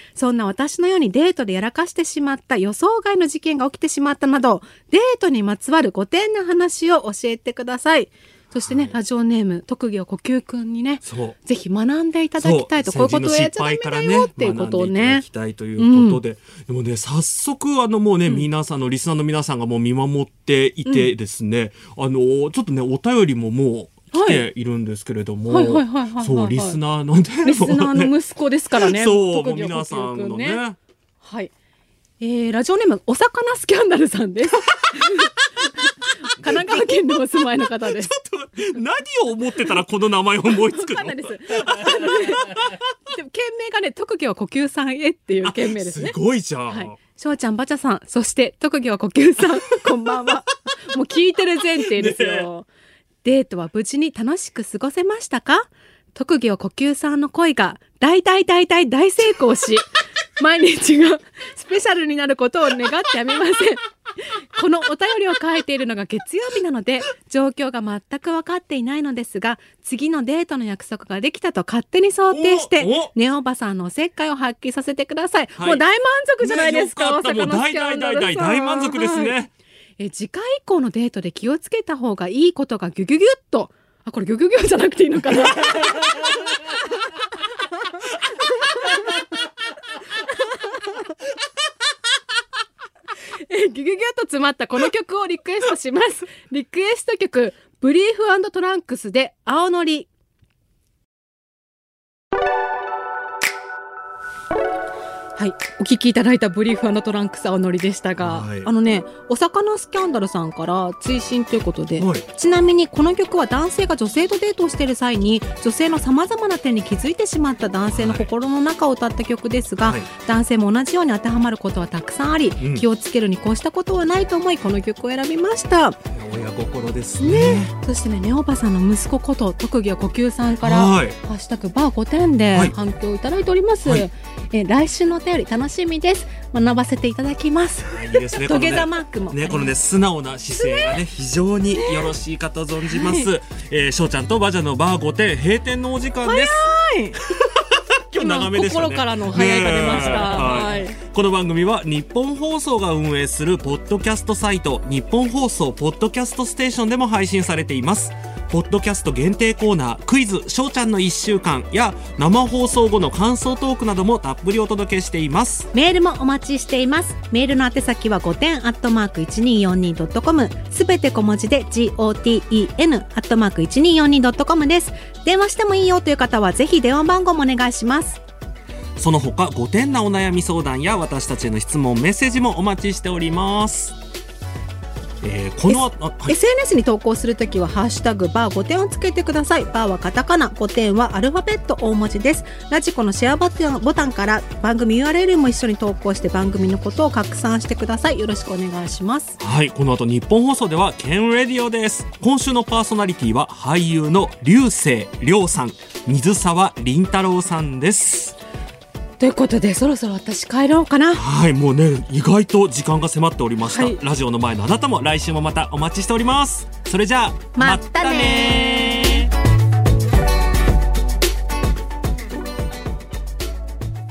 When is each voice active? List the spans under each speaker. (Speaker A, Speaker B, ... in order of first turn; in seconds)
Speaker A: 0.2-15.2, 15.8-16.2, 24.1-24.4, 25.5-26.8, 27.4-30.6, 31.2-31.5, 32.2-38.1, 40.5-46.2, 46.7-52.7, 53.2-79.3, 80.0-86.8, 88.4-89.3, 90.2-91.1, 93.5-100.1, 105.4-126.0, 127.2-139.7, 140.5-141.0, 141.7-142.1, 142.8-143.3, 146.2-147.2, 148.2-151.0, 165.7-178.2, 185.7-199.4, 209.2-211.2, 213.7-214.0, 217.6-219.3
Speaker B: 8.7-8.9, 11.1-11.4, 12.4-28.1, 28.8-30.8, 34.7-35.2, 36.4-37.1, 37.8-42.8, 45.4-47.0, 51.9-52.5, 72.3-73.1, 75.6-75.8, 76.4-79.5, 108.2-108.7, 112.0-112.2, 117.9-118.3, 122.6-122.9, 126.1-127.7, 130.6-131.2, 137.9-146.6, 147.2-165.7, 179.0-183.9, 185.2-186.4, 199.4-208.4, 211.1-219.3